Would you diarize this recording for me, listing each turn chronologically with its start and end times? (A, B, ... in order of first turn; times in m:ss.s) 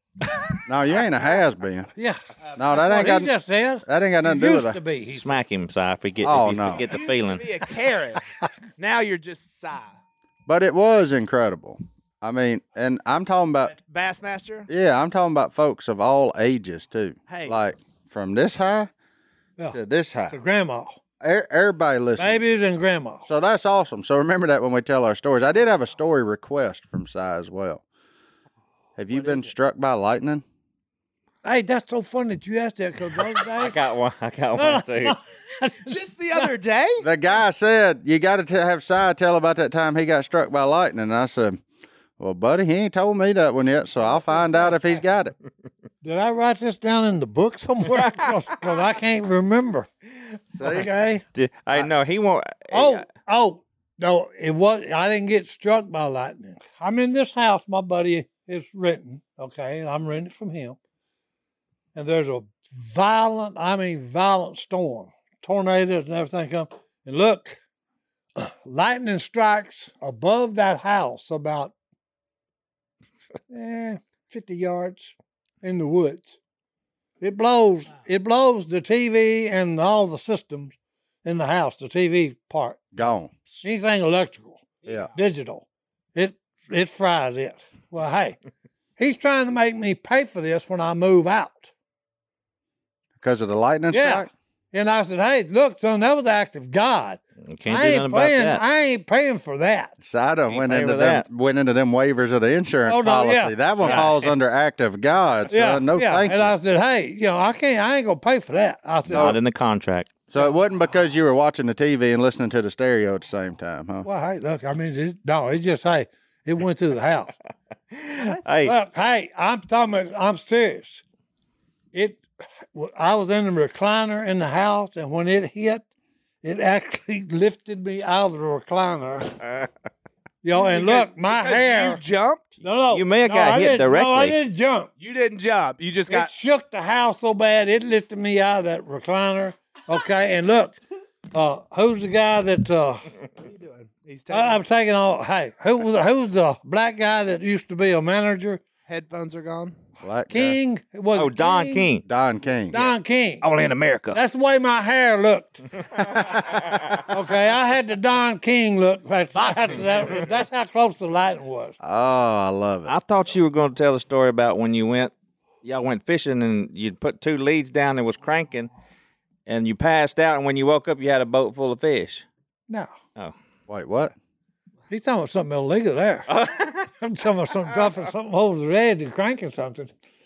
0:00.7-0:01.9 A
0:02.0-0:05.4 B
0:02.6-0:03.3 A
0:03.8-0:04.8 A
0:05.1-0:07.5 C
0:06.2-0:06.9 A
0:06.7-0:10.0 D
0:10.5-0:13.7 A
0:13.7-0:14.7 D
0:14.7-0:18.9 A
0:17.3-0:17.6 D
0:19.7-0:20.4 A
0:20.3-0:21.0 B
0:21.2-0:22.4 A
0:22.2-0:23.3 B
0:23.2-0:27.8 A
0:29.0-0:30.4 A
0:29.1-0:29.5 D
0:31.4-0:33.8 B
0:33.4-0:35.2 C
0:34.6-0:36.5 B
0:35.9-0:37.1 D
0:37.0-0:41.6 A
0:42.2-0:45.3 A
0:46.0-0:49.9 B
0:48.0-0:48.3 C
0:50.5-0:50.9 A
0:50.6-0:51.2 B
0:51.3-0:53.1 C
0:52.7-1:00.8 B
1:02.0-1:07.6 B
1:08.4-1:11.7 B
1:13.5-1:16.4 B
1:17.2-1:23.1 B
1:22.9-1:23.3 A
1:23.6-1:24.6 B
1:24.8-1:25.2 D
1:25.1-1:28.4 B
1:29.0-1:31.7 B
1:33.2-1:34.3 A
1:33.9-1:39.9 B
1:37.5-1:38.6 C
1:40.0-1:46.5 A
1:40.5-1:41.2 C
1:42.9-1:44.1 B
1:43.8-1:44.4 C
1:45.5-1:49.4 B
1:49.1-1:49.4 A
1:49.1-1:50.1 C
1:50.3-1:54.1 A
1:54.0-1:57.3 B
1:57.9-1:58.7 C
1:58.2-1:58.5 D
1:58.6-2:01.0 B
2:01.9-2:05.9 B
2:06.4-2:09.4 B
2:10.4-2:12.0 B
2:10.6-2:12.6 D
2:12.6-2:14.9 B
2:12.9-2:14.4 C
2:15.0-2:16.3 D
2:16.1-2:20.8 B
2:21.3-2:23.0 B
2:23.4-2:24.6 D
2:24.3-2:28.6 B
2:28.9-2:29.8 D
2:30.0-2:30.6 A
2:30.3-2:31.9 B
2:31.1-2:32.0 C
2:32.0-2:33.0 A
2:32.7-2:33.4 B
2:33.4-2:34.2 C
2:34.1-2:36.4 B
2:36.7-2:37.0 C
2:37.1-2:41.8 B
2:39.4-2:40.3 D
2:41.8-2:42.9 A
2:42.9-2:48.7 C
2:49.5-2:52.3 C
2:53.7-2:54.2 A
2:54.9-2:56.3 B
2:56.3-2:56.9 C
2:57.0-2:59.9 B